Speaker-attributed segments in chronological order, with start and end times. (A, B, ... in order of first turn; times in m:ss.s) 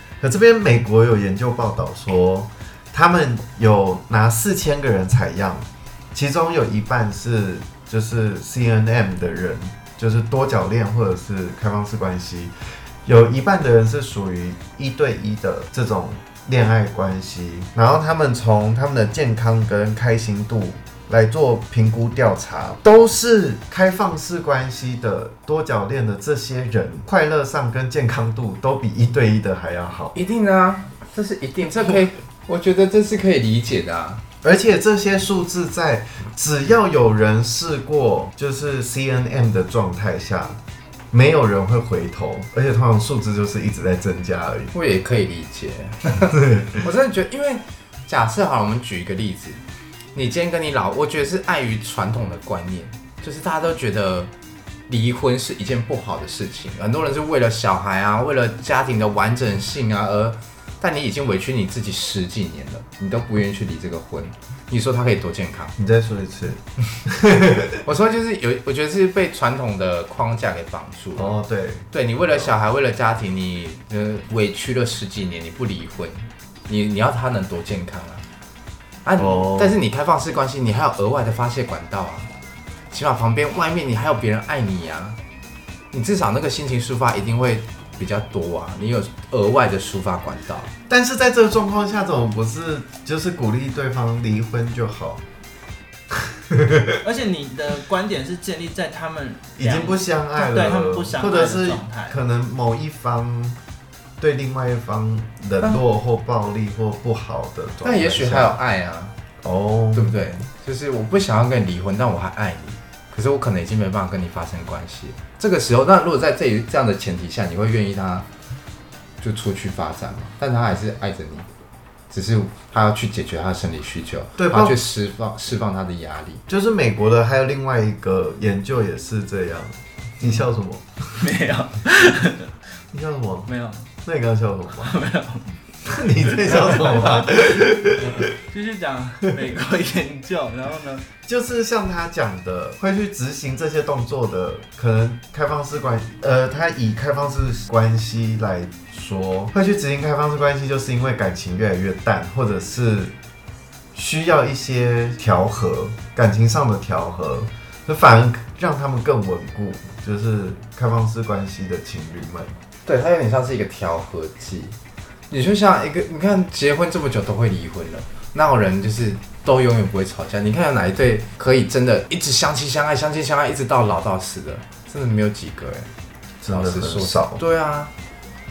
0:00.2-0:30.2 A
0:30.1-0:34.2 B
0:34.4-0:40.6 A
0:41.1-0:44.7 A
0:44.7-0:49.6 B
0:50.2-0:54.3 B
0:54.9-1:05.7 B
1:05.8-1:07.8 A
1:07.8-1:11.3 B
1:11.2-1:12.5 A
1:11.9-1:18.2 B
1:19.0-1:22.3 B
1:19.2-1:19.8 A
1:22.9-1:25.2 B
1:25.9-1:30.7 B
1:30.9-1:35.2 A
1:36.5-1:37.0 A
1:37.0-1:42.2 C
1:39.6-1:43.6 A
1:44.2-1:48.6 A
1:47.8-1:49.2 B
1:49.4-1:50.1 A
1:49.9-1:58.3 B
1:59.2-2:01.5 B
2:02.1-2:06.4 B
2:04.4-2:04.8 A
2:06.5-2:10.9 A
2:11.1-2:12.5 C
2:12.9-2:13.5 A
2:13.5-2:13.9 C
2:14.0-2:15.0 A
2:14.8-2:15.6 C
2:15.8-2:18.4 A
2:16.3-2:17.3 C
2:18.2-2:21.1 C
2:21.2-2:33.1 A
2:33.9-2:42.5 A
2:42.8-2:44.8 B
2:45.3-2:55.9 B
2:56.4-2:57.4 A
2:56.5-2:57.9 B